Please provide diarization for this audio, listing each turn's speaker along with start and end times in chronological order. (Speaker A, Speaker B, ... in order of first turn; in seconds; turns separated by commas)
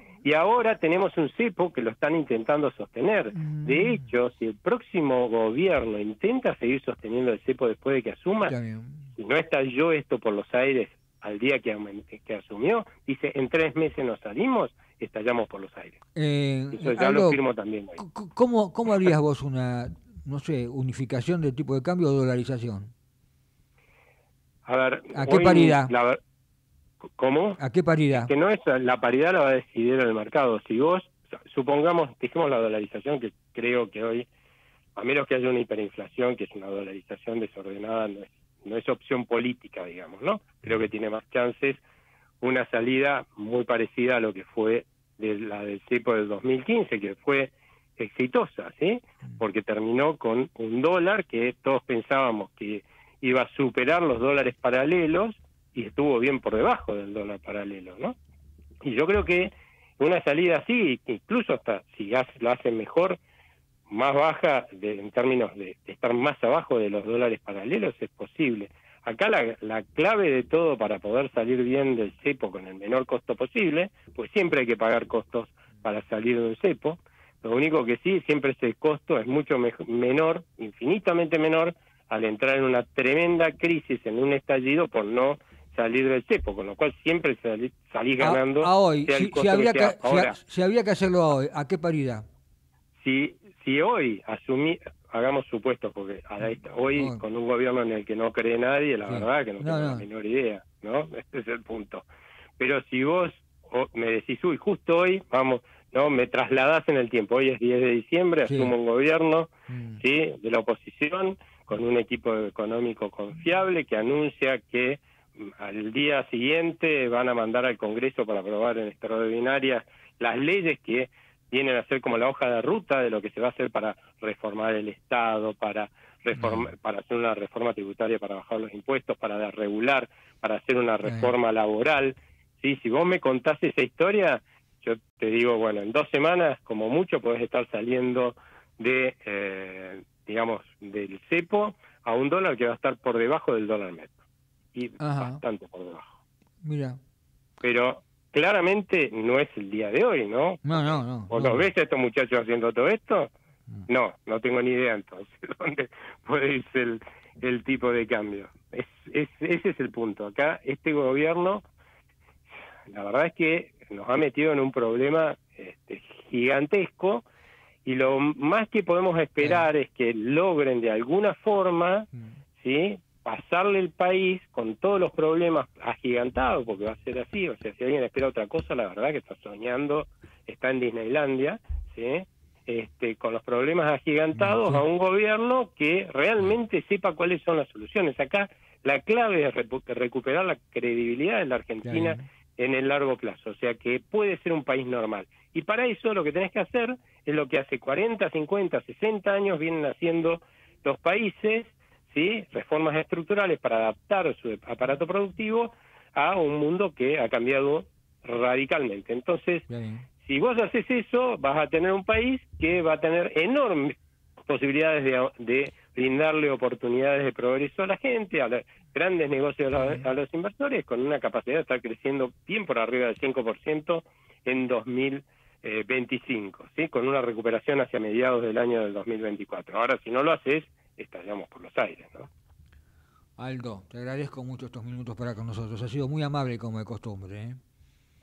Speaker A: 0.2-8.5, Speaker B: 3.3-4.1, Speaker B: 8.5-9.1, Speaker A: 9.2-16.0, Speaker B: 16.1-17.4, Speaker A: 16.7-18.0, Speaker B: 18.0-22.9, Speaker A: 24.6-26.2, Speaker B: 25.1-25.9, Speaker A: 27.2-27.6, Speaker B: 27.6-28.3, Speaker A: 28.1-34.3, Speaker A: 35.0-41.8, Speaker A: 42.4-58.2, Speaker A: 58.8-63.2, Speaker A: 63.9-90.4, Speaker B: 88.2-92.2, Speaker A: 93.0-102.0, Speaker B: 96.4-97.2, Speaker B: 99.1-100.1, Speaker A: 102.6-144.2, Speaker B: 108.5-108.7, Speaker B: 109.7-110.0, Speaker B: 126.4-126.7, Speaker B: 131.1-131.3, Speaker A: 144.8-146.2, Speaker B: 145.0-145.4, Speaker B: 146.6-147.0, Speaker A: 147.6-153.3, Speaker B: 150.6-151.7, Speaker A: 153.9-161.6, Speaker A: 162.9-167.2, Speaker A: 167.8-209.7, Speaker B: 184.3-184.8, Speaker B: 191.8-192.2, Speaker B: 209.7-210.1, Speaker A: 210.2-213.9, Speaker A: 214.5-232.3, Speaker B: 233.4-237.6